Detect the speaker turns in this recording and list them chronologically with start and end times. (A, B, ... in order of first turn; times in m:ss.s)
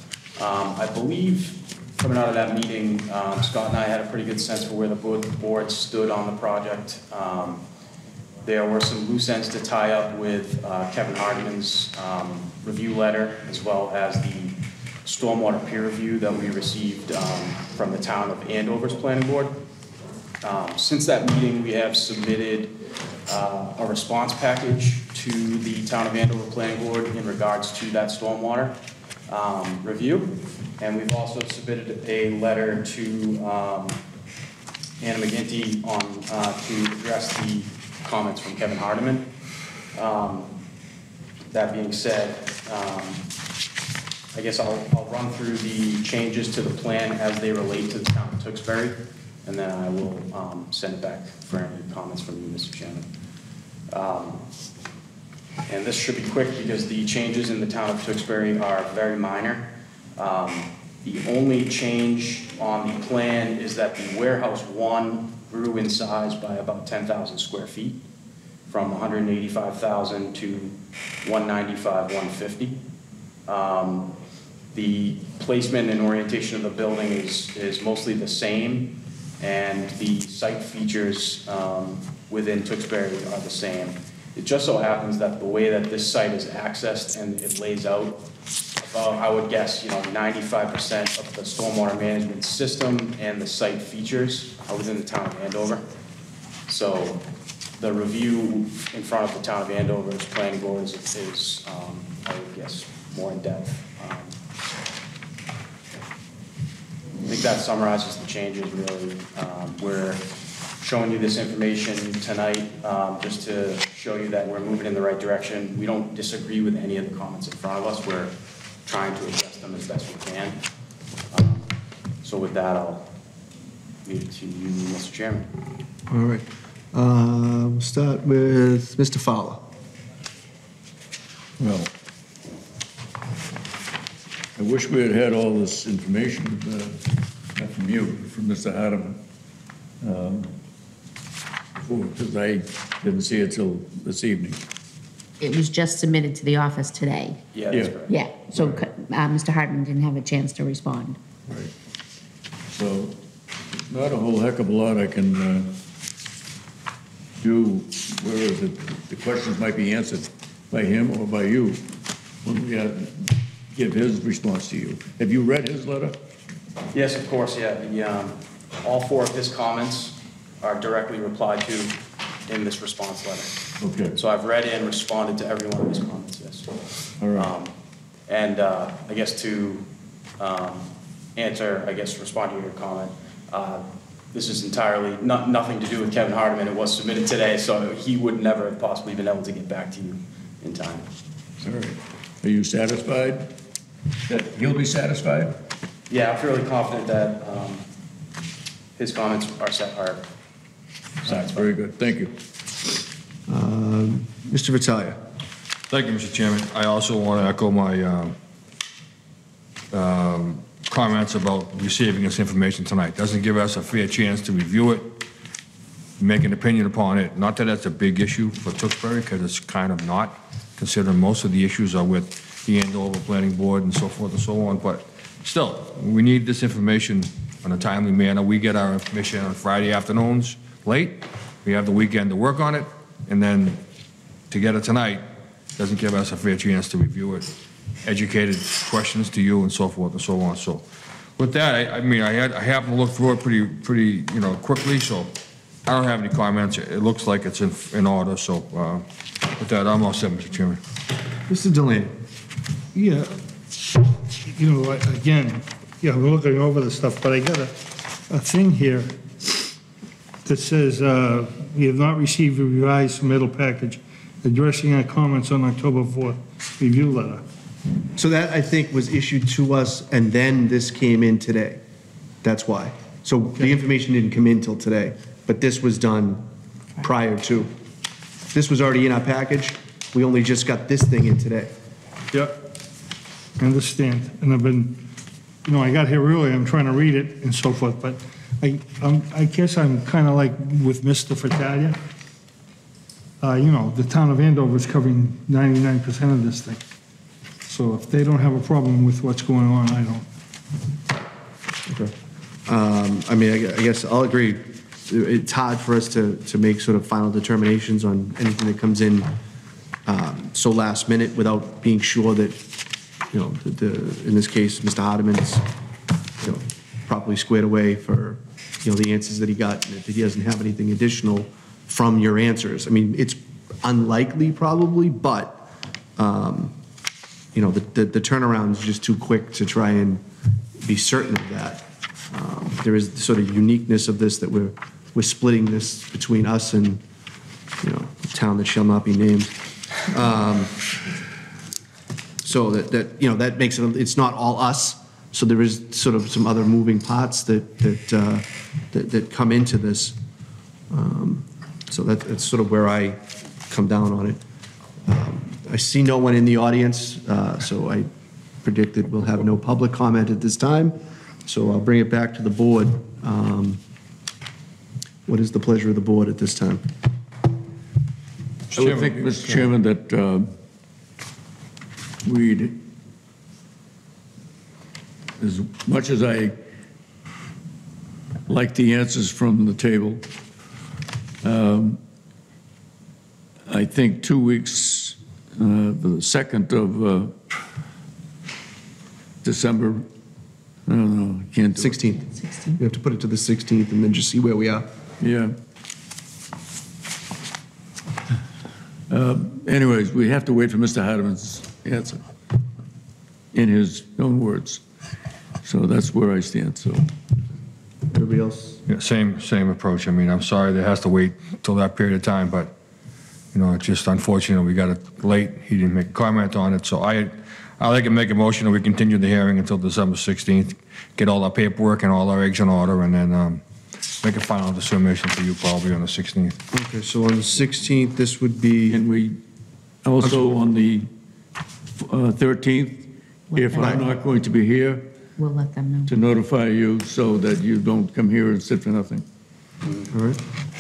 0:00.4-0:07.6 A
0:08.4-0:19.6 A
0:20.4-0:22.7 A
0:23.3-0:28.8 A
0:29.3-0:34.0 A
0:35.0-0:39.3 A
0:39.9-0:40.5 A
0:41.5-0:43.2 A
0:44.3-0:53.1 A
0:53.9-0:54.4 A
0:55.7-1:08.0 A
1:08.7-1:12.8 A
1:13.4-1:14.1 A
1:14.7-1:28.2 A
1:28.8-1:35.8 A
1:36.7-1:37.2 A
1:37.8-1:44.3 A
1:47.2-1:50.2 A
1:50.8-1:58.3 A
1:58.8-2:00.6 A
2:01.3-2:03.1 A
2:04.0-2:05.5 A
2:06.1-2:09.7 B
2:11.6-2:11.9 C
2:14.6-2:19.2 C
2:20.0-2:20.5 C
2:21.8-2:24.6 C
2:25.4-2:27.4 D
2:27.5-2:28.2 A
2:27.7-2:28.0 C
2:28.1-2:31.2 D
2:28.6-2:28.8 C
2:32.7-2:33.1 C
2:33.9-2:35.7 C
2:37.4-2:41.8 C
2:42.4-2:46.2 C
2:46.9-2:53.5 A
2:53.8-2:54.1 C
2:54.2-2:56.7 A
2:57.2-2:57.5 C
2:57.3-2:57.7 A
2:58.3-2:59.9 A
3:00.4-3:11.1 A
3:11.6-3:13.5 C
3:14.3-3:15.5 C
3:16.1-3:17.8 A
3:19.0-3:20.2 A
3:21.2-3:21.7 A
3:21.2-3:22.3 C
3:23.5-3:25.2 B
3:25.9-3:28.4 E
3:29.9-3:35.2 E
3:36.2-3:53.8 E
3:54.5-3:55.2 E
3:55.8-3:57.5 E
3:58.0-4:00.8 E
4:01.4-4:05.3 E
4:05.8-4:10.8 E
4:11.5-4:12.1 B
4:12.9-4:13.4 F
4:14.4-4:19.2 F
4:20.4-4:27.4 F
4:28.2-4:31.8 B
4:32.4-4:36.4 B
4:37.0-4:37.7 B
4:38.5-4:41.7 B
4:43.6-4:45.0 F
4:45.6-4:52.0 F
4:53.4-4:56.8 F
4:57.6-5:00.2 F
5:01.9-5:02.1 B
5:02.7-5:09.3 B
5:10.0-5:12.6 B
5:13.3-5:15.6 B
5:16.4-5:26.7 B
5:27.5-5:30.2 B
5:30.8-5:37.0 B
5:37.8-5:39.5 B
5:40.0-5:40.7 B
5:42.4-5:50.2 B
5:50.9-5:54.4 B
5:55.0-5:58.1 B
5:58.6-6:03.8 B
6:05.2-6:06.8 B
6:08.7-6:10.5 C
6:08.8-6:09.6 E
6:12.2-6:12.8 C
6:15.4-6:16.6 C
6:18.5-6:20.2 C
6:21.4-6:22.0 C
6:23.7-6:27.4 C
6:29.4-6:30.1 C
6:30.8-6:32.0 C
6:31.8-6:34.9 B
6:32.3-6:32.8 D
6:35.2-6:35.6 C
6:39.1-6:42.2 C
6:43.5-6:44.8 C
6:45.6-6:47.1 C
6:48.1-6:48.8 B
6:48.8-6:52.7 E
6:53.5-7:03.6 E
7:04.2-7:06.6 E
7:06.7-7:09.0 B
7:08.9-7:09.4 C
7:10.0-7:11.1 C
7:12.0-7:15.0 C
7:13.5-7:14.1 D
7:13.8-7:14.0 B
7:15.4-7:16.1 D
7:16.1-7:19.2 C
7:20.1-7:20.4 B